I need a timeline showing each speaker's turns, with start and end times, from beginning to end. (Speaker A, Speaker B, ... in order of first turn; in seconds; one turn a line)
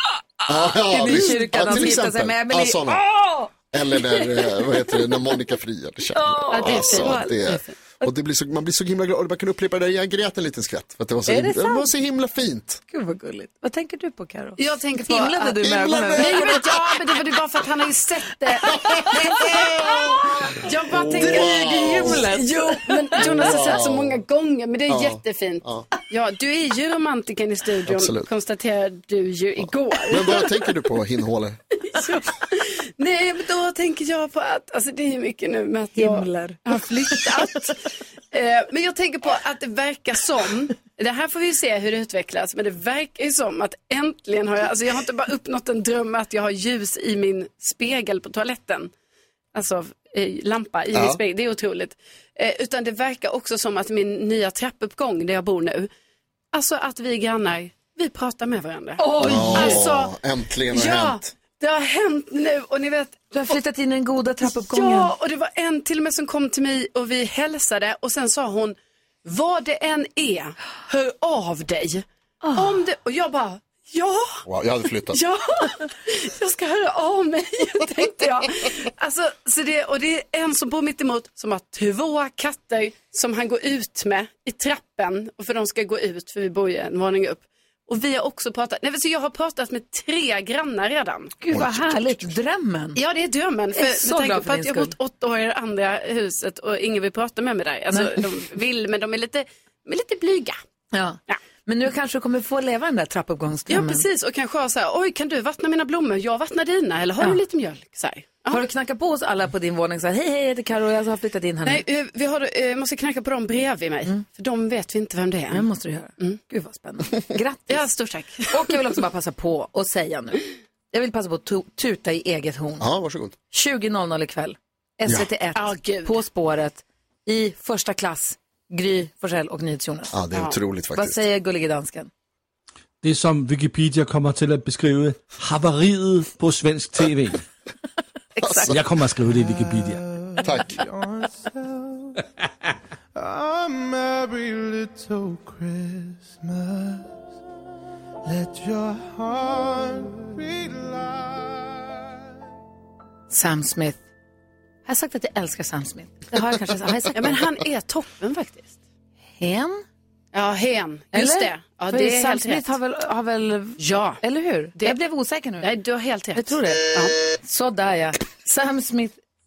Speaker A: 0.5-3.0
Speaker B: 0.6-4.7
Speaker A: 3.7-12.8
Speaker B: 6.1-8.1
Speaker C: 6.5-7.7
Speaker B: 11.3-11.9
Speaker B: 12.9-16.6
Speaker C: 14.6-15.6
Speaker A: 15.6-16.6
Speaker C: 16.1-30.8
Speaker B: 19.1-23.8
Speaker A: 19.5-20.1
Speaker A: 20.9-22.3
Speaker A: 23.2-24.2
Speaker A: 24.9-25.9
Speaker A: 27.9-28.3
Speaker A: 30.1-31.6
Speaker C: 31.9-48.9
Speaker B: 36.0-36.6
Speaker C: 49.5-55.9
Speaker A: 50.9-51.2
Speaker C: 56.5-60.1
Speaker B: 59.0-59.9
Speaker A: 59.2-61.3
Speaker C: 60.7-63.6
Speaker B: 63.3-65.1
Speaker C: 64.4-74.5
Speaker B: 72.4-72.8
Speaker A: 74.5-75.2
Speaker C: 75.1-91.3
Speaker B: 91.4-93.0
Speaker A: 91.5-92.3
Speaker C: 93.0-100.6
Speaker B: 93.7-95.0
Speaker B: 97.9-98.2
Speaker B: 100.9-104.1
Speaker C: 103.7-108.6
Speaker B: 108.5-111.8
Speaker C: 111.6-115.7
Speaker B: 115.5-117.9
Speaker C: 117.7-119.0
Speaker B: 118.5-122.9
Speaker A: 122.8-123.4
Speaker B: 123.5-130.1
Speaker C: 125.5-126.2
Speaker A: 130.1-131.2
Speaker C: 130.3-130.6
Speaker B: 130.9-132.1
Speaker D: 133.0-137.5
Speaker B: 138.4-138.8
Speaker A: 138.4-138.8
Speaker D: 138.7-140.1
Speaker E: 139.3-142.2
Speaker A: 140.4-140.8
Speaker E: 143.2-147.2
Speaker E: 148.2-151.6
Speaker B: 153.3-154.0
Speaker B: 154.9-157.4
Speaker C: 157.1-158.8
Speaker B: 159.4-159.8
Speaker C: 160.3-162.7
Speaker B: 161.1-165.7
Speaker C: 163.8-164.2
Speaker C: 165.6-167.2
Speaker B: 166.3-166.9
Speaker B: 167.4-169.2